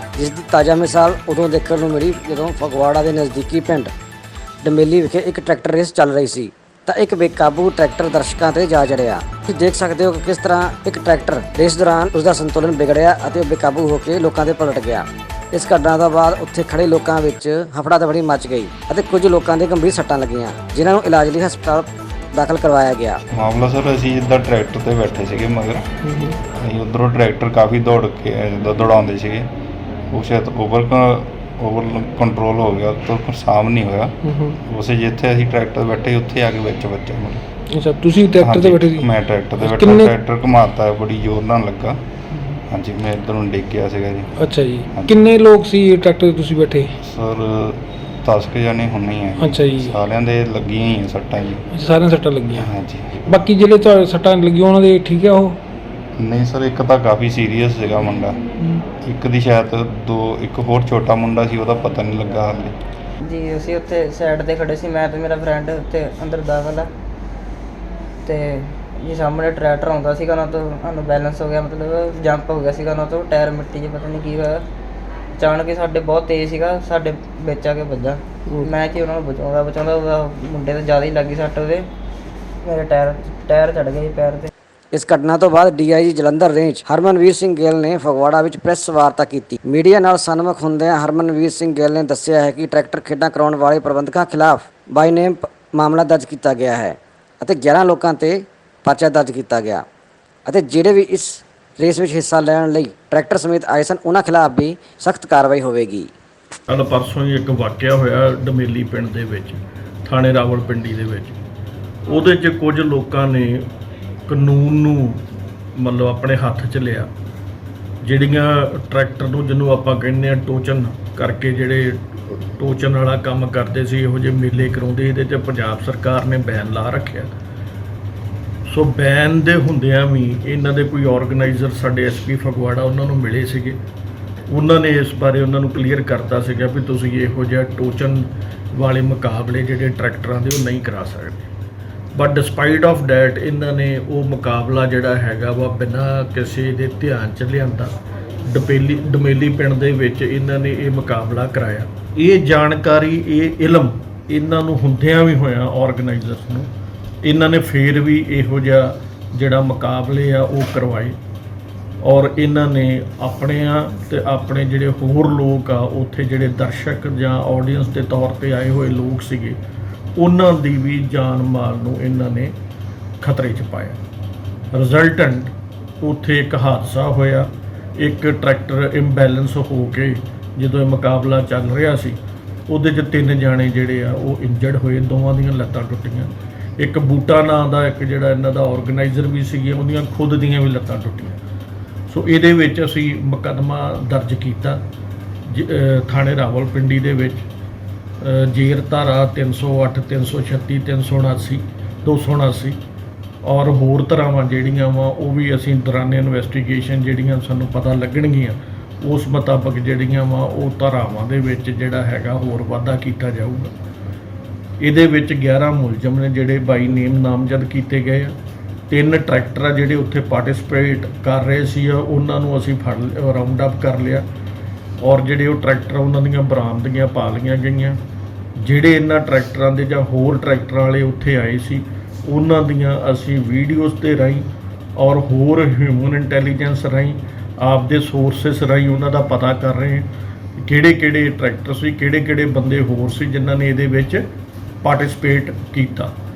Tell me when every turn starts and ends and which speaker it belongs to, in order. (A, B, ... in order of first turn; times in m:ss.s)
0:00.2-0:03.9 A
0:04.6-0:23.2 A
0:23.3-0:25.8 B
0:26.1-0:26.3 C
0:26.4-0:29.5 B
0:30.1-0:37.4 B
0:34.2-0:34.6 C
0:37.7-0:39.1 C
0:38.4-0:42.0 B
0:39.6-0:40.1 C
0:42.7-0:44.3 B
0:44.4-0:46.9 C
0:47.0-0:51.6 B
0:49.4-0:49.9 C
0:51.7-0:52.7 C
0:52.6-0:53.3 B
0:53.2-0:55.6 C
0:56.2-0:58.4 B
0:59.0-1:02.7 B
1:03.2-1:06.9 D
1:08.2-1:14.6 D
1:15.4-1:21.9 D
1:22.6-1:24.5 D
1:24.9-1:39.8 A
1:40.4-1:46.1 A
1:46.7-1:51.4 E
1:52.1-1:53.7 E
1:54.3-1:55.2 E
1:55.8-1:57.1 E
1:58.0-2:07.3 E
2:08.7-2:13.8 E
2:14.5-2:21.5 E
2:22.1-2:27.9 E
2:28.4-2:36.7 E
2:37.2-2:41.2 E
2:42.0-2:49.6 E
2:50.2-2:52.5 E
2:53.2-2:54.0 E
2:54.7-3:11.4 E
3:12.1-3:14.8 E
3:15.5-3:17.4 E
3:18.2-3:22.8 E
3:23.4-3:33.7 E
3:34.8-3:38.4 E
3:38.9-3:44.2 E
3:45.0-3:48.0 E
3:48.6-4:04.2 E
4:04.8-4:06.1 E